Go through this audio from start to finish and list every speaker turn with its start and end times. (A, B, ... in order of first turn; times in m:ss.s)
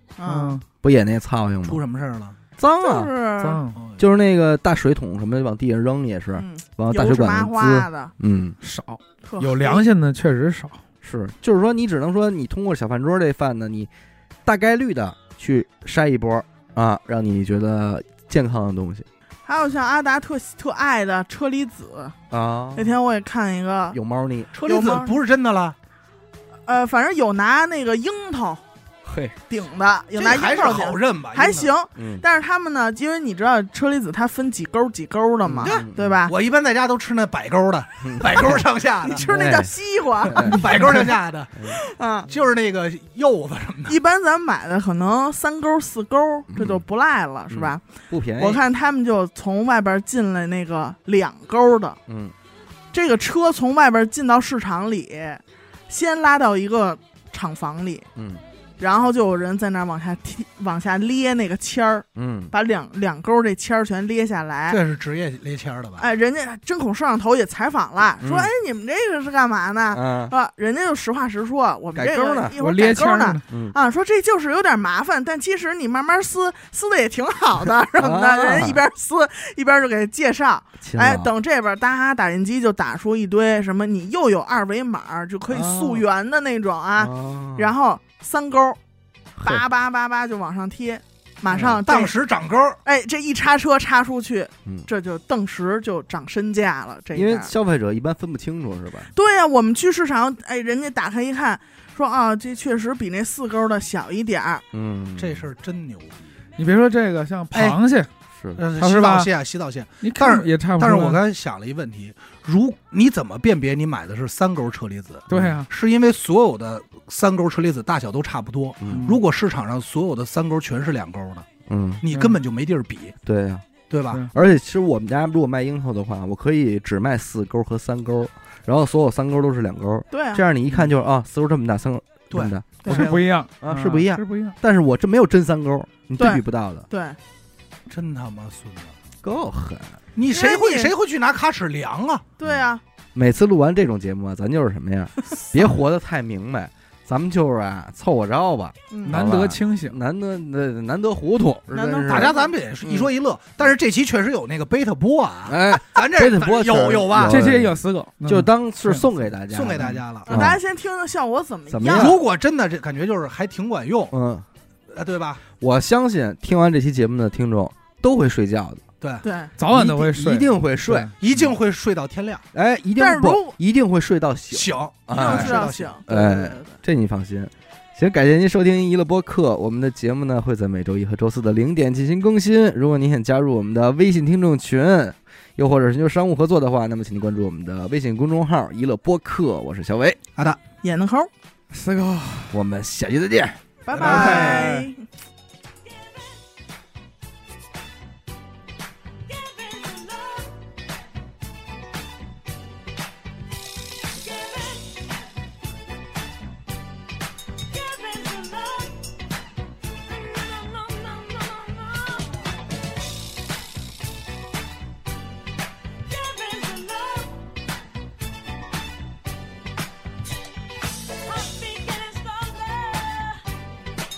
0:00.2-0:00.6 A
0:00.2-0:00.6 B
0:00.8-0:01.8 C
0:01.6-0:02.4 D
0:02.6-0:03.1 C
0:02.8-0:03.6 A
0:03.4-0:03.8 B
0:03.8-0:04.0 D
0:04.0-0:08.6 C
0:06.4-0:08.1 A
0:08.6-0:10.8 B
0:09.2-0:09.8 A
0:11.0-0:13.9 C
0:14.5-0:19.1 C
0:19.4-0:22.2 A
0:22.3-0:23.0 C
0:22.8-0:24.0 A
0:23.9-0:24.5 C
0:24.5-0:25.8 D
0:24.6-0:25.2 A
0:26.7-0:28.6 A
0:29.0-0:29.4 C
0:29.5-0:36.3 A
0:30.2-0:31.7 D
0:32.0-0:32.2 C
0:35.5-0:36.2 C
0:35.6-0:39.3 D
0:38.0-0:38.6 C
0:39.0-0:40.9 A
0:39.2-0:40.7 C
0:40.3-0:41.7 D
0:41.6-0:42.3 A
0:42.3-0:44.0 D
0:43.9-0:47.8 A
0:46.5-0:46.8 C
0:47.5-0:48.6 C
0:48.4-0:52.0 A
0:52.1-0:52.4 C
0:52.9-0:58.1 A
0:58.2-0:58.4 C
0:58.8-1:04.8 A
1:02.2-1:02.5 C
1:04.7-1:06.1 D
1:06.0-1:28.8 A
1:08.2-1:08.5 C
1:09.9-1:10.4 C
1:12.0-1:12.6 C
1:12.6-1:13.4 B
1:13.5-1:13.8 C
1:18.0-1:18.8 C
1:20.8-1:21.3 C
1:25.5-1:26.0 C
1:27.0-1:27.7 C
1:29.4-1:29.6 C
1:29.4-1:32.1 A
1:31.5-1:31.8 C
1:31.8-1:32.8 D
1:32.8-1:37.5 A
1:37.1-1:39.1 C
1:39.1-1:44.6 A
1:44.7-1:45.5 C
1:45.2-1:46.3 D
1:46.6-1:48.1 B
1:47.5-1:47.8 D
1:48.6-2:01.5 D
1:48.8-1:49.3 B
1:50.0-1:51.2 B
1:55.3-1:55.7 B
1:58.8-1:59.2 C
1:58.9-1:59.2 B
2:01.7-2:02.0 C
2:02.0-2:03.2 D
2:02.1-2:02.4 B
2:03.2-2:03.7 C
2:03.9-2:04.2 D
2:04.3-2:16.9 C
2:10.1-2:10.4 A
2:12.9-2:14.6 B
2:16.2-2:17.2 A
2:17.9-2:19.0 D
2:19.2-2:20.0 C
2:20.2-2:22.3 D
2:20.3-2:20.9 A
2:22.4-2:22.8 A
2:23.1-2:33.1 C
2:28.9-2:29.2 A
2:29.1-2:30.0 B
2:31.7-2:32.5 A
2:32.1-2:37.4 D
2:35.5-2:37.7 C
2:37.3-2:39.1 B
2:38.2-2:40.6 C
2:39.5-2:40.5 D
2:40.3-2:42.2 A
2:41.7-2:42.2 C
2:41.9-2:44.1 D
2:44.1-2:44.5 C
2:44.9-2:45.4 D
2:45.5-2:48.8 C
2:49.0-2:49.3 D
2:49.2-2:49.5 A
2:49.6-2:51.1 B
2:49.7-2:51.1 C
2:51.2-2:52.4 D
2:52.5-3:10.2 C
2:53.0-2:53.6 A
2:54.5-2:56.0 D
2:55.1-2:56.8 A
3:10.8-3:11.3 A
3:11.7-3:12.6 B
3:12.5-3:14.4 C
3:13.8-3:15.1 A
3:13.9-3:14.7 D
3:13.9-3:14.9 B
3:36.6-3:37.3 A
3:41.8-3:43.2 A